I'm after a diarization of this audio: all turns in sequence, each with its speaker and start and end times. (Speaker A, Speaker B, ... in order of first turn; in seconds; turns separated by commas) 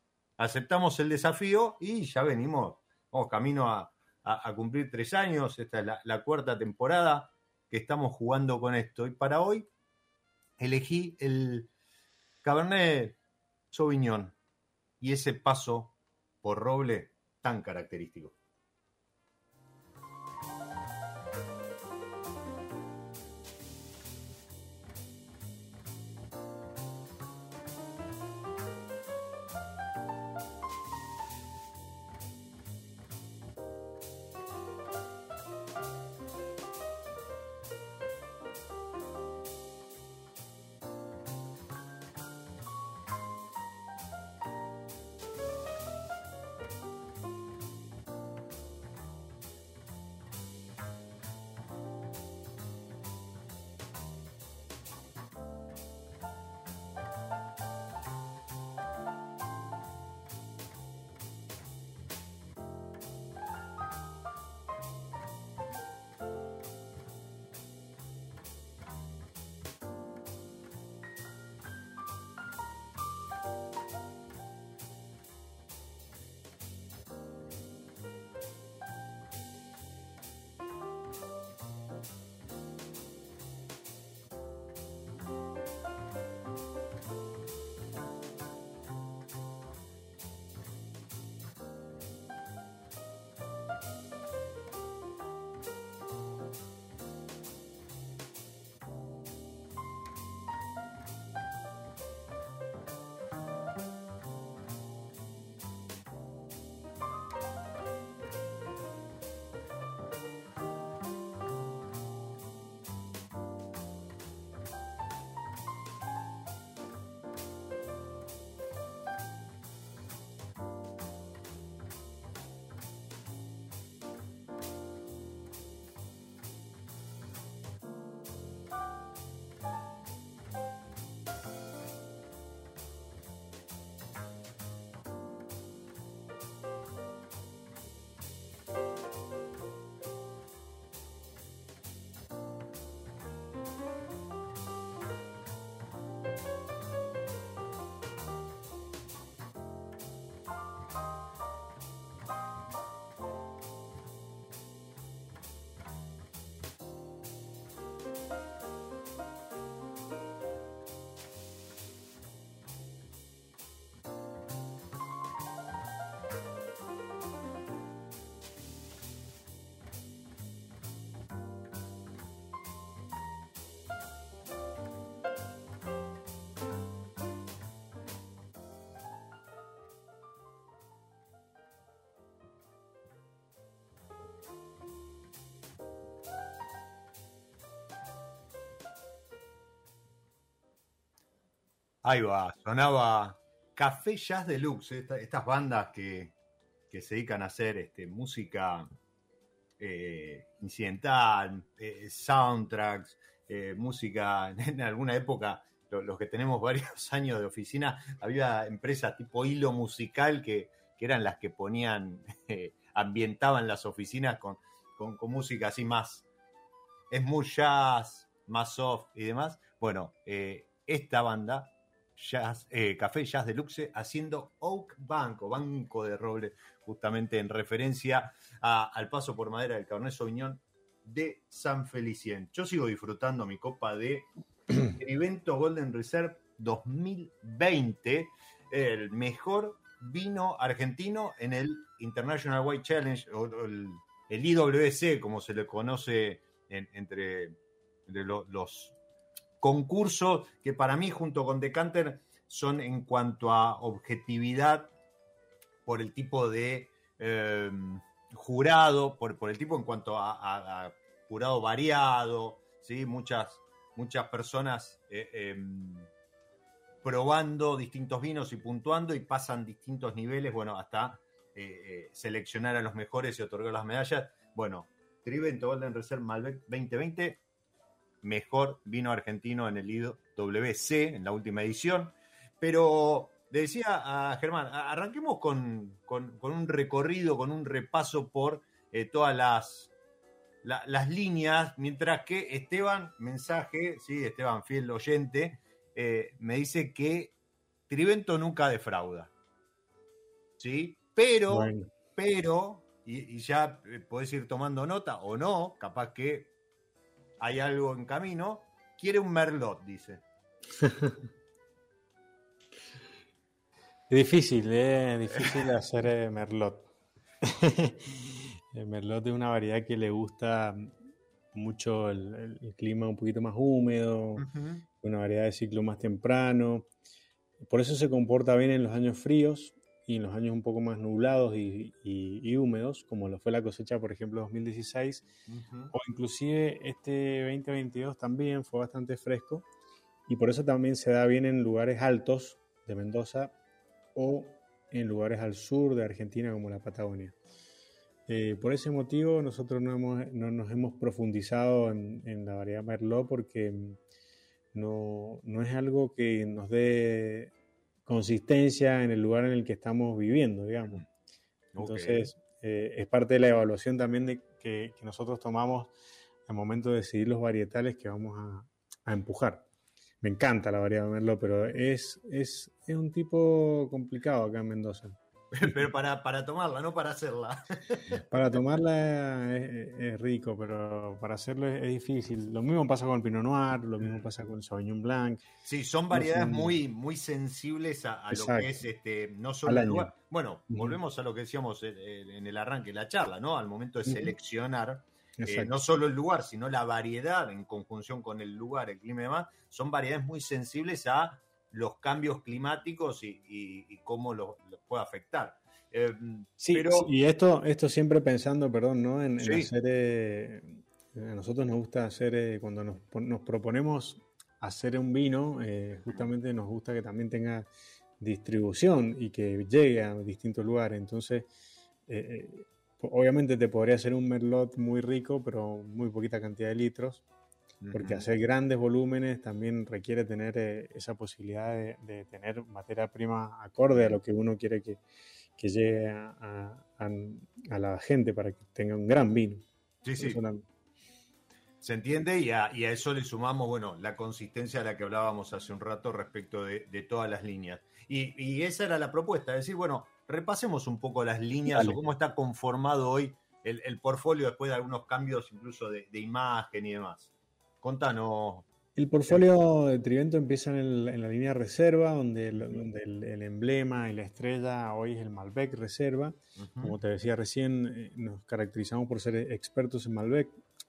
Speaker A: 0.4-9.7, Speaker A: 10.6-11.7, Speaker A: 12.4-13.2, Speaker A: 13.7-14.3, Speaker A: 15.0-18.4, Speaker A: 192.0-196.3, Speaker A: 196.9-198.9, Speaker A: 199.8-216.2, Speaker A: 217.1-249.0, Speaker A: 249.6-254.9, Speaker A: 255.8-266.1, Speaker A: 267.0-277.4, Speaker A: 278.2-289.9, Speaker A: 290.6-297.4, Speaker A: 297.9-299.3, Speaker A: 300.6-306.5, Speaker B: 301.5-301.9, Speaker A: 307.4-310.2, Speaker B: 310.8-311.2, Speaker B: 314.1-316.9, Speaker B: 317.4-318.1, Speaker B: 318.7-320.9, Speaker B: 321.5-324.5, Speaker A: 324.4-324.9, Speaker B: 325.0-326.9, Speaker B: 327.6-335.3, Speaker A: 335.5-335.9, Speaker B: 335.9-339.6, Speaker B: 340.3-343.5, Speaker B: 344.1-347.4, Speaker B: 348.3-354.0, Speaker B: 354.7-357.5, Speaker B: 358.1-361.0, Speaker A: 361.7-362.3, Speaker B: 361.8-365.9, Speaker B: 366.5-369.7, Speaker B: 370.2-375.8, Speaker A: 375.5-378.0, Speaker B: 378.3-385.4, Speaker A: 385.6-407.1, Speaker B: 386.1-386.8, Speaker B: 388.3-388.8, Speaker B: 389.6-390.1, Speaker B: 390.7-390.9, Speaker B: 394.1-394.3, Speaker B: 395.4-395.7, Speaker B: 406.6-417.7, Speaker A: 409.4-409.7, Speaker B: 418.2-421.5, Speaker B: 422.1-427.2, Speaker A: 427.8-428.3, Speaker B: 427.9-435.0, Speaker A: 433.9-434.2, Speaker B: 435.6-439.6, Speaker A: 440.0-440.4, Speaker B: 440.2-440.6, Speaker A: 441.8-457.3, Speaker B: 451.7-452.0, Speaker A: 457.8-458.7, Speaker B: 459.0-470.6, Speaker A: 466.6-466.9